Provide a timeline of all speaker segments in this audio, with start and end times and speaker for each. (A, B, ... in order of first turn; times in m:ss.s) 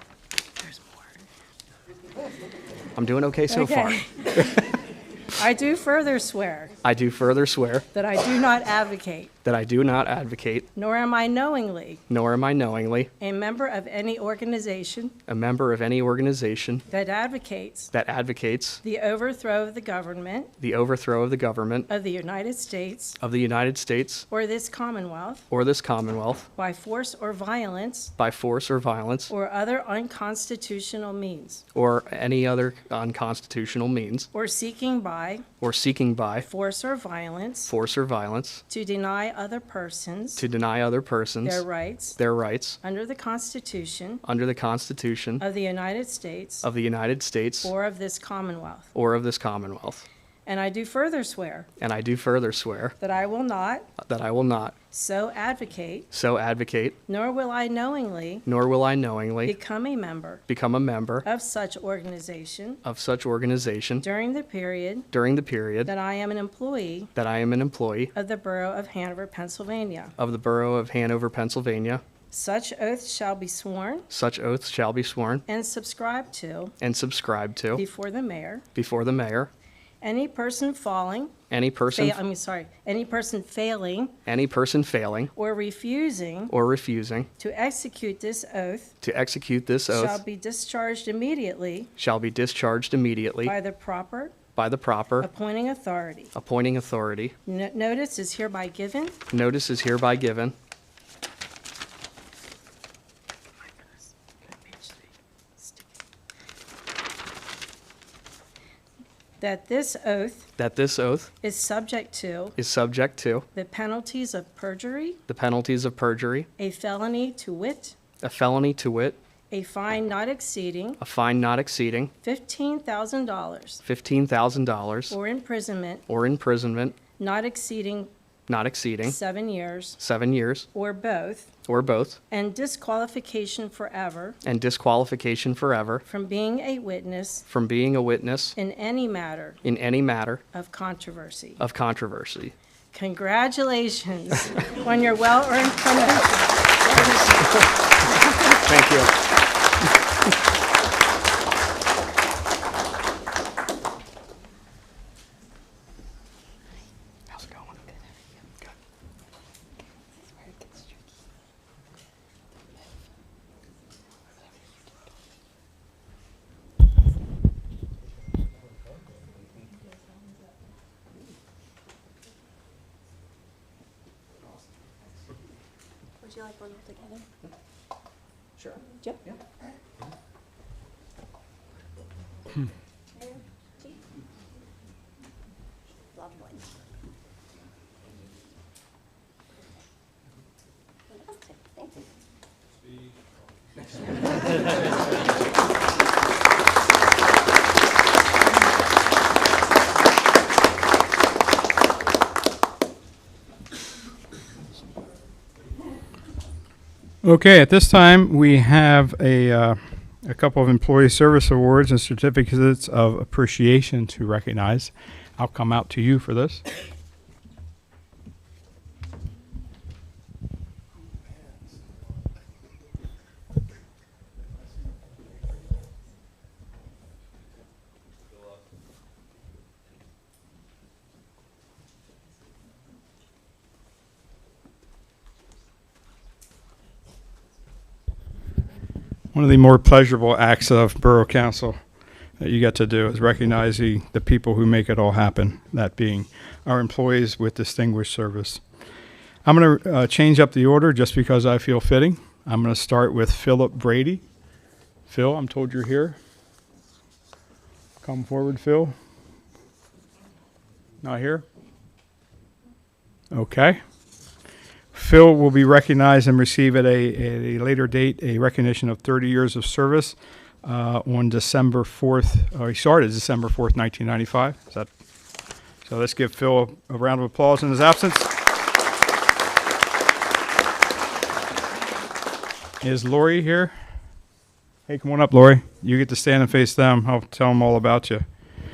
0:03.0-0:04.0 A
0:03.5-0:04.6 B
0:05.4-0:06.7 B
0:06.8-0:07.9 A
0:07.9-0:09.3 B
0:09.4-0:10.7 A
0:10.7-0:12.0 B
0:12.1-0:13.1 A
0:13.2-0:15.2 B
0:15.3-0:16.8 A
0:16.9-0:17.9 B
0:17.9-0:18.8 A
0:18.8-0:20.5 B
0:20.6-0:21.9 A
0:21.9-0:23.2 B
0:23.2-0:24.3 A
0:24.3-0:25.4 B
0:25.5-0:26.5 A
0:26.6-0:28.1 B
0:28.2-0:29.3 A
0:29.3-0:31.6 B
0:31.7-0:34.3 A
0:34.3-0:35.4 B
0:35.6-0:36.5 A
0:36.4-0:37.7 B
0:37.7-0:38.6 A
0:38.7-0:40.4 B
0:40.4-0:42.8 A
0:41.4-0:42.2 B
0:42.8-0:44.2 B
0:44.2-0:45.4 A
0:45.4-0:46.6 B
0:46.6-0:47.7 A
0:47.6-0:48.9 B
0:48.9-0:50.0 A
0:50.4-0:51.7 B
0:51.8-0:53.0 A
0:53.0-0:53.9 B
0:54.0-0:54.8 A
0:54.9-0:56.1 B
0:56.1-0:57.0 A
0:57.1-0:58.4 B
0:58.4-0:59.6 A
0:59.4-1:00.4 B
1:00.5-1:01.2 A
1:01.2-1:02.8 B
1:02.8-1:04.0 A
1:04.0-1:05.1 B
1:05.1-1:05.9 A
1:05.8-1:07.1 B
1:07.1-1:08.1 A
1:08.1-1:10.1 B
1:10.2-1:12.0 A
1:12.3-1:14.1 B
1:14.1-1:15.4 A
1:15.5-1:16.7 B
1:16.8-1:17.8 A
1:17.7-1:18.6 B
1:18.7-1:19.5 A
1:20.0-1:21.3 B
1:21.5-1:22.2 A
1:21.9-1:24.2 B
1:24.2-1:25.3 A
1:25.3-1:26.5 B
1:26.5-1:27.3 A
1:27.4-1:28.9 B
1:29.0-1:30.2 A
1:29.9-1:31.9 B
1:32.0-1:33.5 A
1:33.4-1:34.4 B
1:34.6-1:35.3 A
1:35.2-1:36.3 B
1:36.3-1:37.3 A
1:37.4-1:39.2 B
1:39.3-1:40.5 A
1:44.5-1:44.9 B
1:45.6-1:45.9 B
1:49.4-1:50.5 B
1:50.6-1:51.3 A
1:51.4-1:52.6 B
1:52.6-1:53.4 A
1:53.5-1:55.2 B
1:55.3-1:56.5 A
1:56.6-1:58.0 B
1:58.2-1:59.2 A
1:59.5-2:01.0 B
2:01.0-2:02.1 A
2:02.2-2:03.8 B
2:03.8-2:05.2 A
2:05.1-2:06.0 B
2:06.1-2:07.0 A
2:07.2-2:08.1 B
2:08.5-2:09.2 A
2:09.0-2:10.0 B
2:10.0-2:10.7 A
2:10.7-2:11.5 B
2:11.6-2:12.2 A
2:12.3-2:14.4 B
2:14.4-2:16.0 A
2:16.0-2:17.4 B
2:17.5-2:18.6 A
2:18.6-2:19.6 B
2:19.6-2:20.4 A
2:20.5-2:21.6 B
2:21.6-2:22.5 A
2:22.9-2:27.7 B
2:27.1-2:27.7 A
2:28.5-2:29.1 A
2:37.3-2:37.8 A
2:40.4-2:40.7 C
2:56.2-2:57.3 C
3:03.2-3:04.0 C
3:06.1-3:06.6 C
3:11.1-3:11.9 C
3:27.2-3:36.6 D
3:59.3-4:01.8 D
4:02.4-4:08.6 D
4:09.4-4:14.2 D
4:15.1-4:16.2 D
4:18.0-4:18.9 D
4:21.0-4:21.4 D
4:23.3-4:23.8 D
4:24.9-4:34.9 D
4:35.8-4:38.3 D
4:42.8-4:43.7 D
4:44.9-4:48.2 D